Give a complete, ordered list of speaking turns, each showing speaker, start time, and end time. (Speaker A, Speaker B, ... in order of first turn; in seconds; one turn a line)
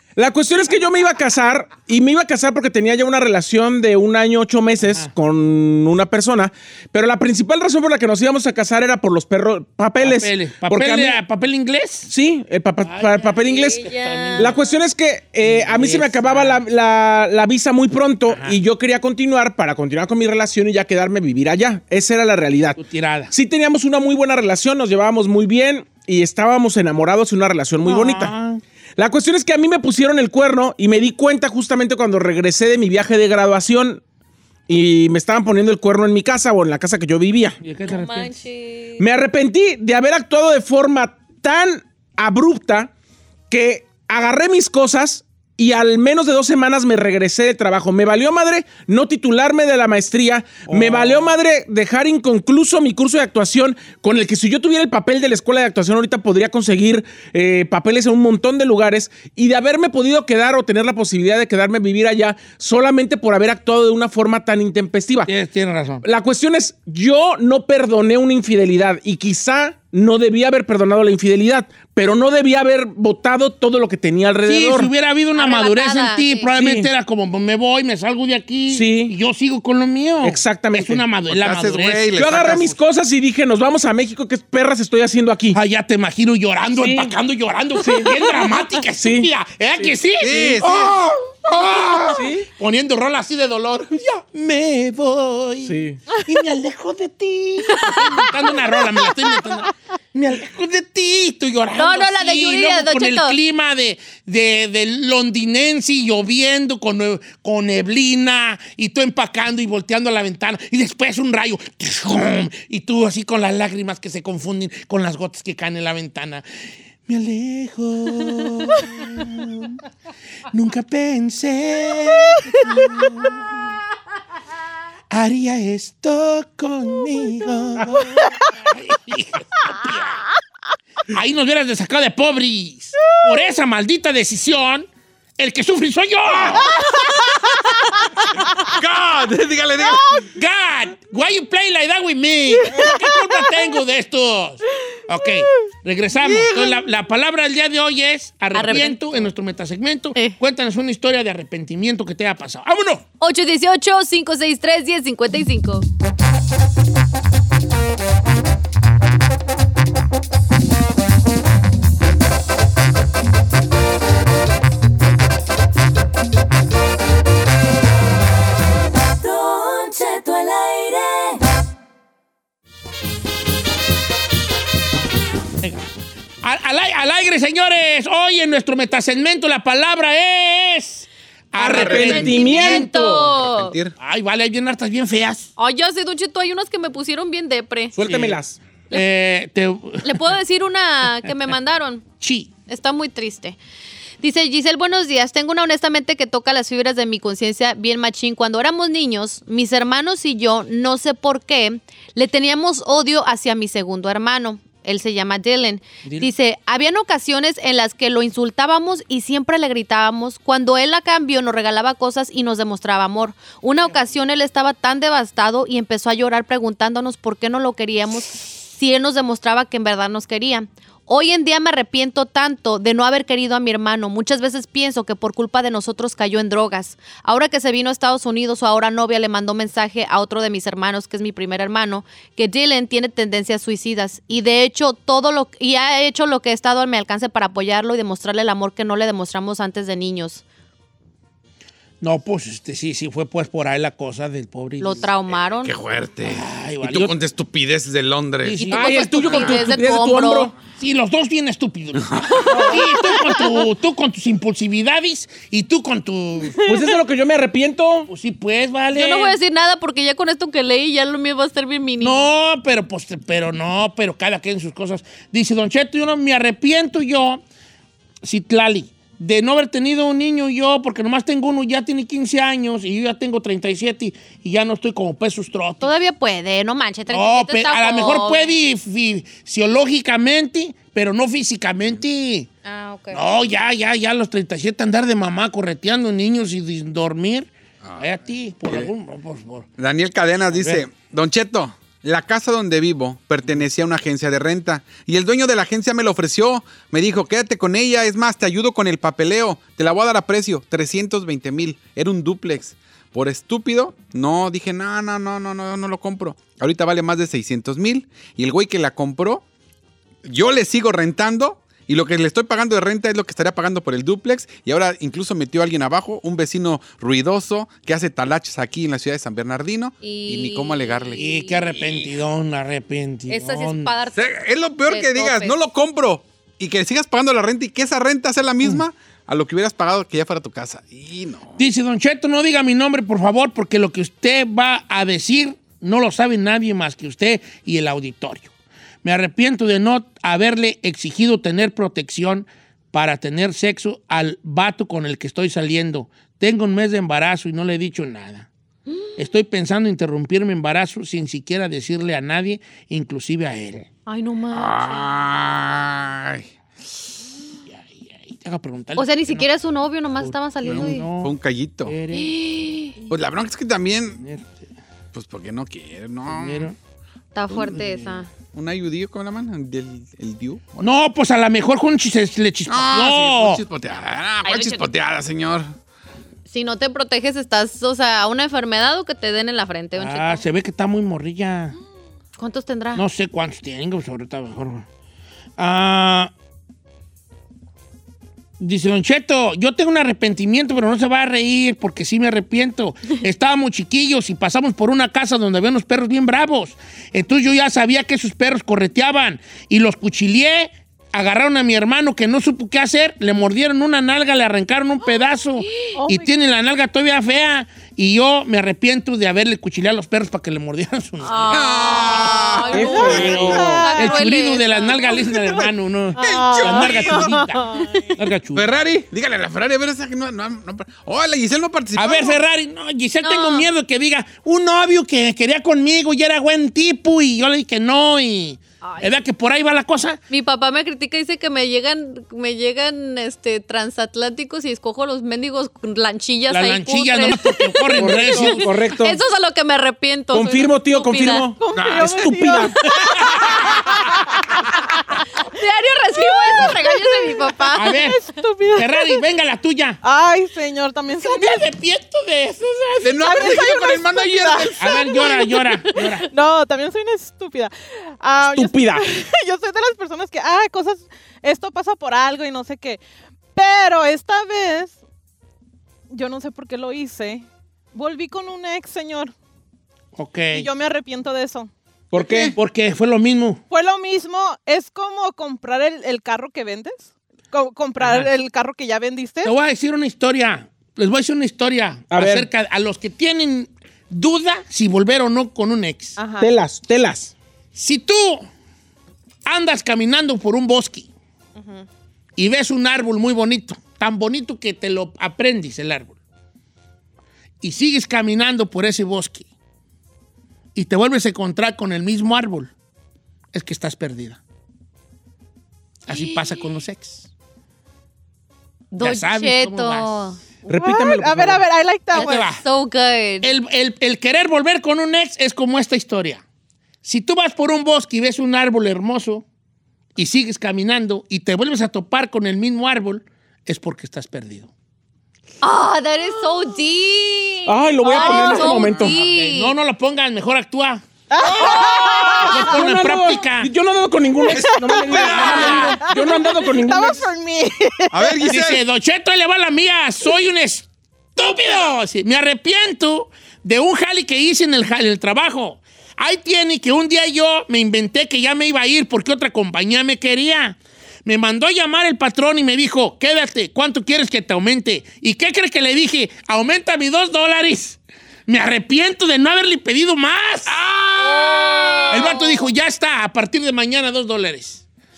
Speaker A: 0.2-11.2
Speaker B: 4.8-5.1
Speaker B: 10.0-12.1
Speaker A: 12.1-22.8
Speaker B: 12.8-14.6
Speaker C: 13.4-14.5
Speaker B: 15.4-16.6
Speaker B: 18.3-18.6
Speaker B: 22.8-23.3
Speaker A: 23.3-28.3
Speaker B: 27.8-28.6
Speaker A: 29.0-34.0
Speaker A: 34.7-37.6
Speaker B: 37.6-38.4
Speaker C: 37.9-39.0
Speaker A: 39.0-42.9
Speaker A: 43.5-65.3
Speaker B: 50.7-51.4
Speaker B: 65.2-66.0
Speaker A: 66.0-74.9
Speaker B: 74.4-82.8
Speaker C: 75.3-76.5
Speaker A: 76.5-76.9
Speaker A: 78.7-79.2
Speaker A: 80.2-81.0
Speaker D: 81.3-82.7
Speaker A: 82.2-85.6
Speaker B: 85.5-116.4
Speaker A: 86.8-87.1
Speaker A: 87.8-88.2
Speaker A: 89.0-89.9
Speaker D: 90.2-92.2
Speaker A: 90.6-90.9
Speaker A: 92.1-92.5
Speaker A: 95.7-96.0
Speaker C: 97.8-98.3
Speaker C: 101.8-103.4
Speaker B: 117.1-119.8
Speaker B: 120.5-123.5
Speaker B: 125.1-130.2
Speaker B: 131.1-136.8
Speaker D: 136.6-137.7
Speaker D: 138.4-140.3
Speaker B: 140.3-153.0
Speaker D: 146.2-146.8
Speaker C: 148.5-149.0
Speaker C: 153.2-155.8
Speaker E: 169.2-171.4
Speaker B: 175.6-175.9
Speaker B: 176.4-183.2
Speaker A: 181.6-183.2
Speaker D: 181.7-182.2
Speaker C: 181.7-183.8
Speaker D: 183.2-183.9
Speaker B: 184.0-185.5
Speaker C: 185.6-187.9
Speaker A: 187.9-188.6
Speaker B: 188.0-188.4
Speaker B: 188.9-190.1
Speaker C: 190.0-192.0
Speaker B: 192.2-192.5
Speaker C: 192.7-193.6
Speaker C: 194.2-240.4
Speaker B: 206.1-206.3
Speaker B: 242.0-245.1
Speaker C: 244.8-245.7
Speaker D: 245.6-249.6
Speaker B: 246.2-247.1
Speaker B: 248.4-248.9
Speaker C: 248.6-250.5
Speaker A: 248.7-250.5
Speaker B: 250.8-256.6
Speaker D: 251.9-252.6
Speaker C: 252.4-252.9
Speaker F: 256.5-257.0
Speaker A: 256.6-258.1
Speaker B: 258.1-259.4
Speaker C: 258.9-262.3
Speaker B: 262.0-267.4
Speaker B: 268.2-275.9
Speaker C: 275.8-278.6
Speaker B: 277.1-282.5
Speaker C: 282.6-283.2
Speaker B: 283.1-289.7
Speaker D: 289.8-309.4
Speaker B: 290.5-290.9
Speaker D: 310.2-321.2
Speaker C: 320.0-321.7
Speaker B: 321.2-323.9
Speaker C: 323.3-324.3
Speaker D: 324.1-331.6
Speaker C: 324.8-325.6
Speaker B: 331.6-338.5
Speaker B: 339.0-348.5
Speaker C: 348.9-349.2
Speaker B: 349.2-353.9
Speaker C: 354.1-355.1
Speaker D: 354.5-356.5
Speaker B: 357.7-359.5
Speaker C: 359.0-361.1
Speaker B: 360.2-362.3
Speaker D: 360.6-361.9
Speaker C: 362.1-363.0
Speaker D: 363.1-364.2
Speaker B: 364.2-364.6
Speaker D: 365.1-366.7
Speaker B: 366.3-366.8
Speaker C: 367.3-368.3
Speaker B: 367.5-368.2
Speaker D: 368.5-370.6
Speaker B: 370.8-373.6
Speaker D: 372.7-375.7
Speaker C: 374.4-374.9
Speaker C: 376.5-380.4
Speaker B: 379.9-381.8
Speaker C: 382.4-383.0
Speaker B: 382.9-384.9
Speaker B: 385.6-386.3
Speaker B: 388.6-411.7
Speaker C: 405.6-406.0
Speaker F: 405.9-406.4
Speaker C: 411.2-415.1
Speaker D: 411.5-413.5
Speaker A: 412.7-413.9
Speaker F: 412.7-414.3
Speaker B: 413.1-418.7
Speaker D: 415.2-417.3
Speaker F: 416.2-418.2
Speaker D: 418.5-422.4
Speaker B: 421.9-430.2
Speaker C: 423.2-423.7
Speaker C: 428.8-429.1
Speaker C: 430.3-441.5
Speaker B: 436.5-438.7
Speaker A: 438.0-439.2
Speaker A: 440.3-442.8
Speaker F: 441.6-444.6
Speaker D: 441.8-442.1
Speaker B: 442.9-443.7
Speaker D: 443.6-443.9
Speaker C: 445.4-448.1
Speaker F: 446.2-449.2
Speaker B: 447.7-448.2
Speaker B: 448.8-450.0
Speaker F: 450.0-451.7
Speaker B: 451.2-453.6
Speaker D: 453.0-454.9
Speaker F: 453.2-463.0
Speaker B: 454.8-456.3
Speaker A: 458.4-459.1
Speaker F: 463.5-465.0
Speaker F: 466.1-469.3
Speaker B: 470.2-470.7
Speaker F: 470.5-471.7
Speaker A: 472.1-472.6
Speaker D: 472.1-472.6
Speaker B: 472.6-473.6
Speaker F: 473.7-479.5
Speaker B: 478.0-478.3
Speaker B: 479.4-486.2
Speaker A: 482.1-482.5
Speaker F: 486.2-486.5
Speaker A: 486.4-487.3
Speaker B: 487.8-488.5
Speaker B: 489.4-491.1
Speaker F: 491.6-491.9
Speaker B: 492.4-496.2
Speaker B: 497.6-499.5
Speaker B: 500.8-502.7
Speaker B: 503.5-504.4
Speaker B: 506.1-507.3
Speaker C: 506.1-506.8
Speaker C: 508.9-510.4
Speaker B: 509.0-510.3
Speaker A: 510.7-511.6
Speaker F: 510.7-512.5
Speaker B: 512.1-512.6
Speaker C: 512.1-513.5
Speaker B: 513.4-516.4
Speaker B: 517.0-519.4
Speaker B: 520.1-524.7
Speaker C: 525.6-529.8
Speaker A: 527.6-529.1
Speaker B: 528.1-531.0
Speaker F: 531.3-532.6
Speaker D: 531.4-532.5
Speaker A: 532.3-537.3
Speaker B: 532.4-533.7
Speaker D: 534.5-536.0
Speaker F: 534.5-538.4
Speaker B: 535.2-536.0
Speaker D: 538.1-538.8
Speaker B: 538.5-560.8
Speaker D: 560.7-562.4
Speaker C: 561.2-562.4
Speaker B: 562.1-564.9